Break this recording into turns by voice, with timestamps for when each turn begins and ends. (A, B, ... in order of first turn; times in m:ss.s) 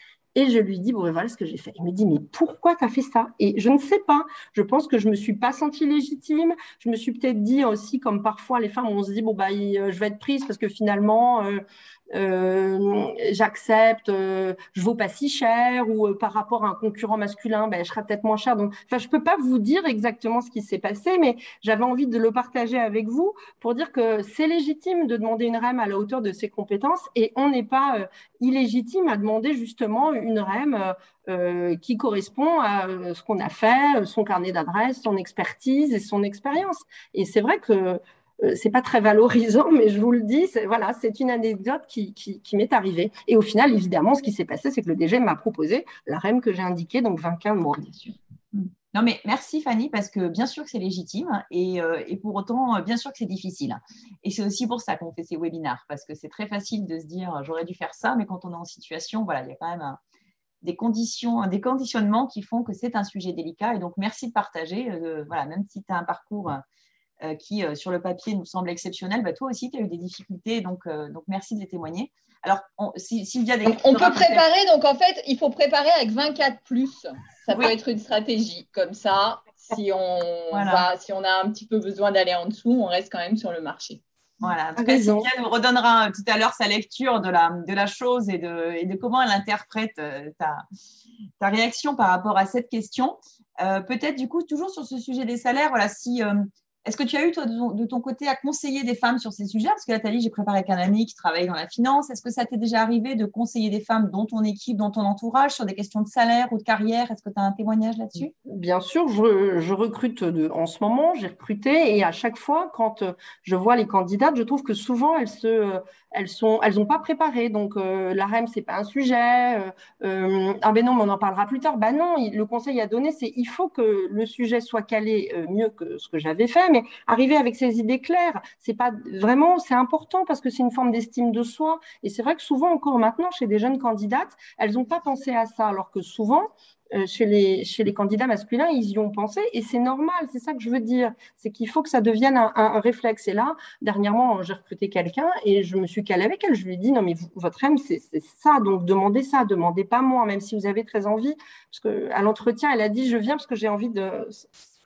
0:00.4-0:47.9 A
0:47.8-1:00.0 B
1:00.6-1:06.6 B
1:07.2-1:14.4 B
1:13.6-1:24.0 C
1:20.5-1:20.9 B
1:24.4-1:30.7 B
1:24.8-1:25.3 A
1:31.4-1:48.3 B
1:48.4-2:34.5 A